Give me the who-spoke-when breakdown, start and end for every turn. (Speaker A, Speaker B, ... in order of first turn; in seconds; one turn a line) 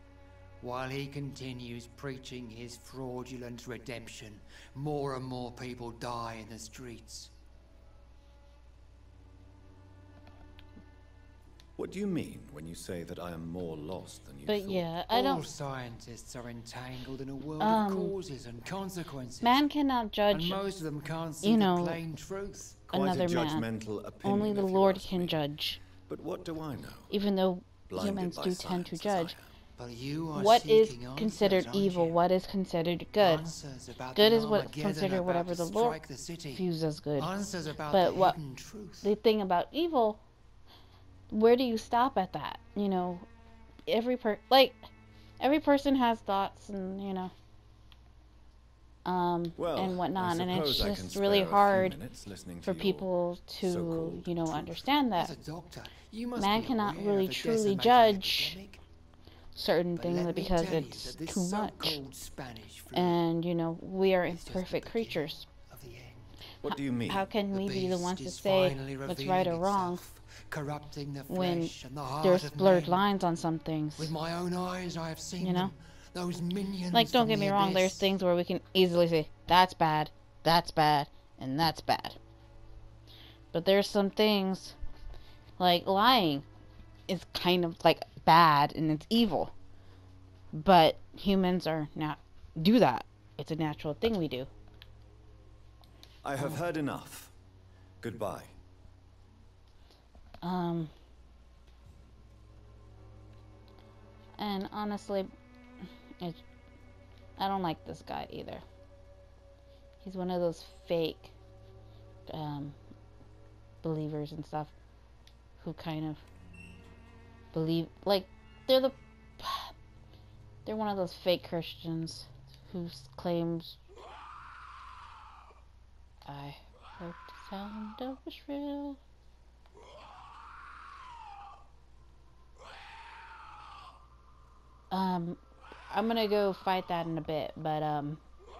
Speaker A: 0.6-7.3
Speaker B: 11.8-14.9
Speaker C: 14.5-15.4
Speaker A: 15.1-19.6
Speaker C: 17.6-18.1
Speaker C: 19.4-20.6
Speaker A: 20.3-22.8
Speaker C: 21.4-22.0
Speaker B: 22.9-25.4
Speaker C: 22.9-23.7
Speaker C: 24.2-25.8
Speaker B: 26.1-27.1
Speaker C: 27.1-29.3
Speaker B: 27.9-29.5
Speaker A: 29.8-32.2
Speaker C: 30.4-33.5
Speaker A: 33.2-36.7
Speaker C: 34.1-36.0
Speaker C: 36.5-37.3
Speaker A: 37.2-39.1
Speaker C: 37.9-38.4
Speaker C: 39.0-40.2
Speaker C: 41.3-43.3
Speaker C: 43.9-44.9
Speaker C: 45.4-47.3
Speaker C: 49.0-52.0
Speaker B: 49.6-53.1
Speaker C: 52.6-55.3
Speaker B: 53.6-54.8
Speaker A: 55.1-58.8
Speaker C: 56.4-58.6
Speaker C: 59.5-62.0
Speaker A: 59.9-63.2
Speaker C: 62.9-65.5
Speaker A: 64.3-66.3
Speaker B: 66.6-67.3
Speaker C: 66.7-70.0
Speaker A: 67.4-73.0
Speaker C: 71.3-74.1
Speaker A: 74.0-78.1
Speaker C: 75.4-75.7
Speaker C: 76.9-82.2
Speaker C: 83.5-84.8
Speaker C: 85.6-86.5
Speaker C: 87.1-89.5
Speaker C: 90.5-94.5
Speaker B: 96.2-97.3
Speaker B: 98.0-98.5
Speaker C: 100.4-100.9
Speaker C: 104.4-105.3
Speaker C: 107.4-108.6
Speaker C: 110.0-111.3
Speaker C: 112.3-112.8
Speaker C: 113.8-114.7
Speaker C: 115.6-116.2
Speaker C: 117.5-119.7
Speaker C: 120.7-123.8
Speaker C: 126.2-129.0
Speaker C: 134.9-138.2